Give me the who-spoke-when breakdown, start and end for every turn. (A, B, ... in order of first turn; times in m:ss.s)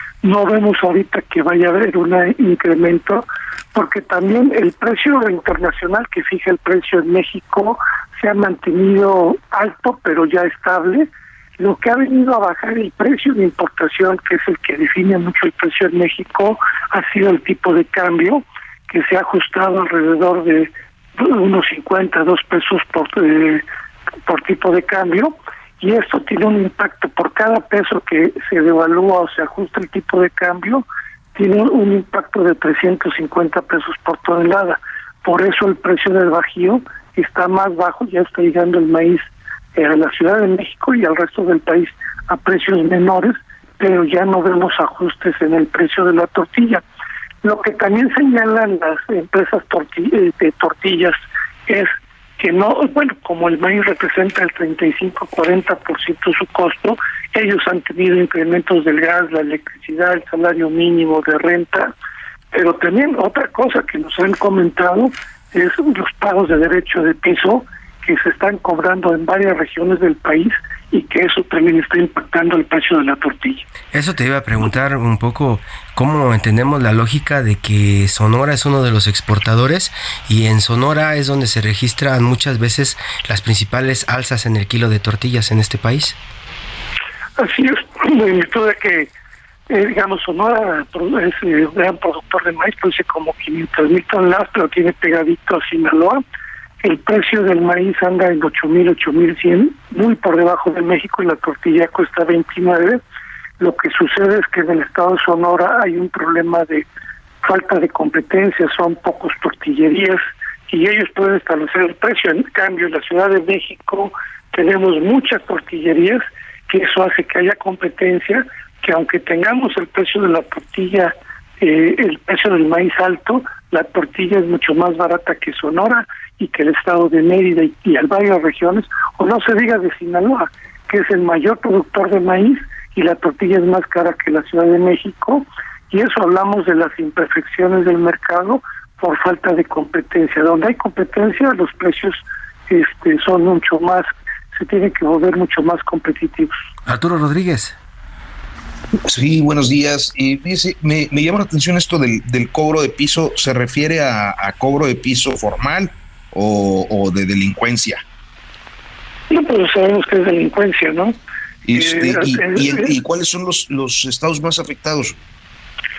0:00.2-0:23.6 A
0:24.3-0:30.8 A
0:31.4-0:46.8 A
0:47.4-1:01.9 A
1:02.5-1:13.6 A
1:13.9-1:26.2 B
1:27.4-1:29.1 A
1:29.7-1:36.2 A
1:36.8-1:43.0 A
1:43.6-1:46.9 A
1:47.4-2:26.5 A
2:26.9-2:27.8 B
2:29.0-2:38.0 C
2:39.3-2:41.2 A
2:41.6-2:45.2 C
2:41.7-2:43.0 A